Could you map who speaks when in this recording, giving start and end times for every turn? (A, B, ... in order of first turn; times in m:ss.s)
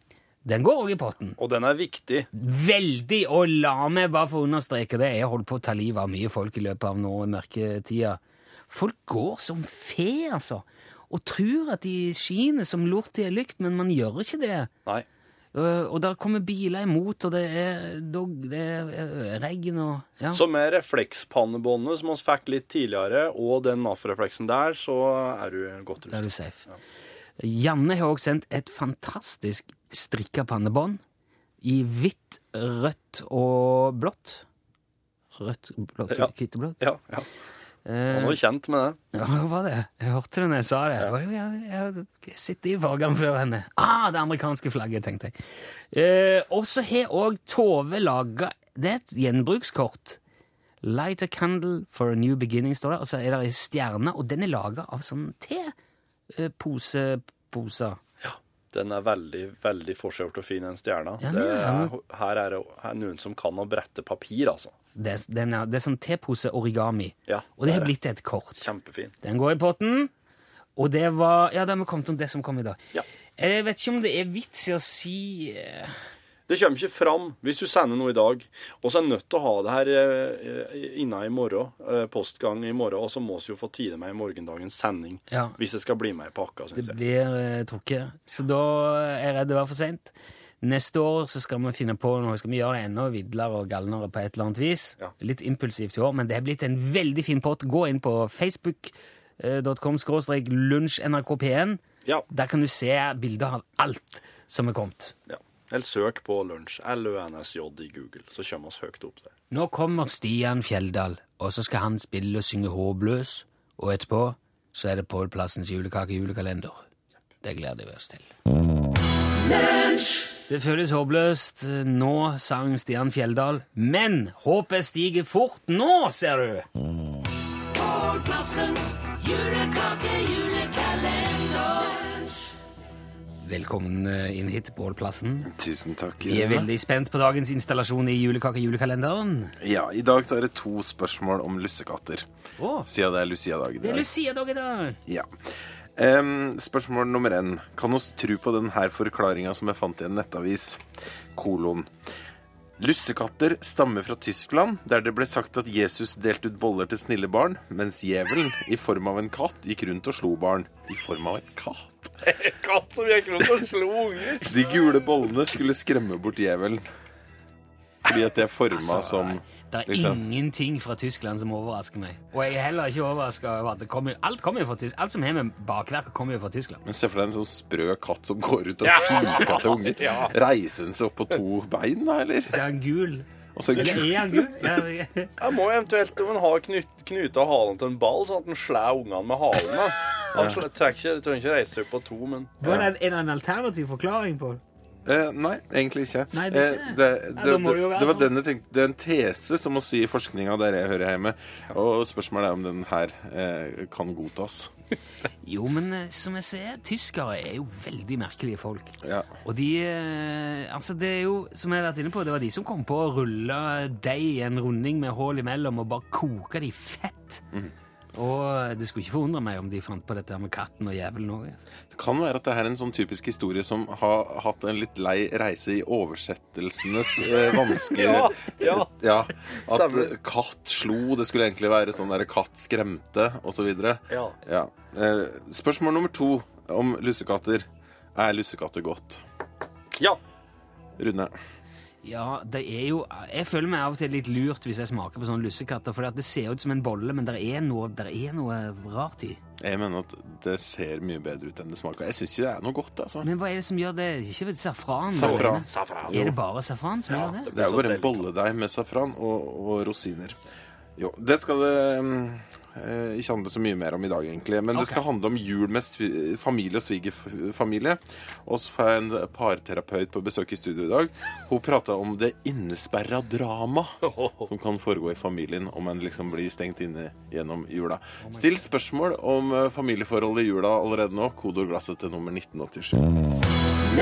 0:00.4-0:01.4 A
0:01.4-0:02.3 B
0:02.3-0:14.7 A
0:15.5-0:20.4 A
0:20.3-0:26.8 B
0:26.1-0:26.7 A
0:27.4-0:31.0 A
0:31.6-0:34.4 A
0:35.4-0:36.8 A
0:36.1-0:37.3 B
0:37.8-0:38.4 A
0:38.1-0:39.0 B
0:39.1-0:45.3 A
0:45.9-0:50.2 A
0:50.8-0:55.7 A
0:56.3-0:58.0 A
0:58.2-1:04.7 B
1:01.2-1:01.9 A
1:05.0-1:08.7 A
1:07.3-1:07.9 B
1:08.6-1:09.1 B
1:09.2-1:10.1 A
1:10.8-1:12.8 A
1:13.4-1:15.9 A
1:16.5-1:27.0 B
1:25.3-1:25.6 A
1:26.7-1:45.1 A
1:45.3-1:49.3 B
1:49.5-1:56.8 A
1:57.4-1:58.3 A
1:59.5-2:06.7 A
2:07.7-2:12.5 A
2:13.4-2:15.5 A
2:15.5-2:16.7 C
2:16.2-2:19.5 A
2:19.6-2:22.2 C
2:22.6-2:22.9 A
2:22.9-2:24.1 C
2:23.8-2:25.0 A
2:25.1-2:25.4 C
2:26.0-2:31.9 C
2:32.8-2:42.1 C
2:42.2-2:44.6 B
2:44.4-2:46.8 C
2:48.0-2:50.2 C
2:48.7-2:56.8 A
2:56.8-3:02.6 C
2:58.8-3:00.3 B
2:59.1-3:00.2 A
3:02.5-3:05.4 A
3:03.6-3:04.8 C
3:05.4-3:12.6 B
3:12.6-3:14.6 A
3:15.1-3:24.7 C
3:16.3-3:18.3 A
3:25.4-3:37.4 A
3:38.1-3:41.6 A
3:41.9-3:59.2 C
3:47.9-3:48.9 B
3:49.7-3:50.1 B
3:54.1-3:54.4 B
4:01.0-4:01.3 C
4:02.0-4:09.4 A
4:09.6-4:13.3 C
4:13.2-4:17.5 A
4:15.1-4:16.4 C
4:15.2-4:15.8 B
4:17.2-4:20.4 C
4:17.4-4:18.2 B
4:21.0-4:34.0 C
4:34.2-4:34.4 B
4:34.5-4:43.1 C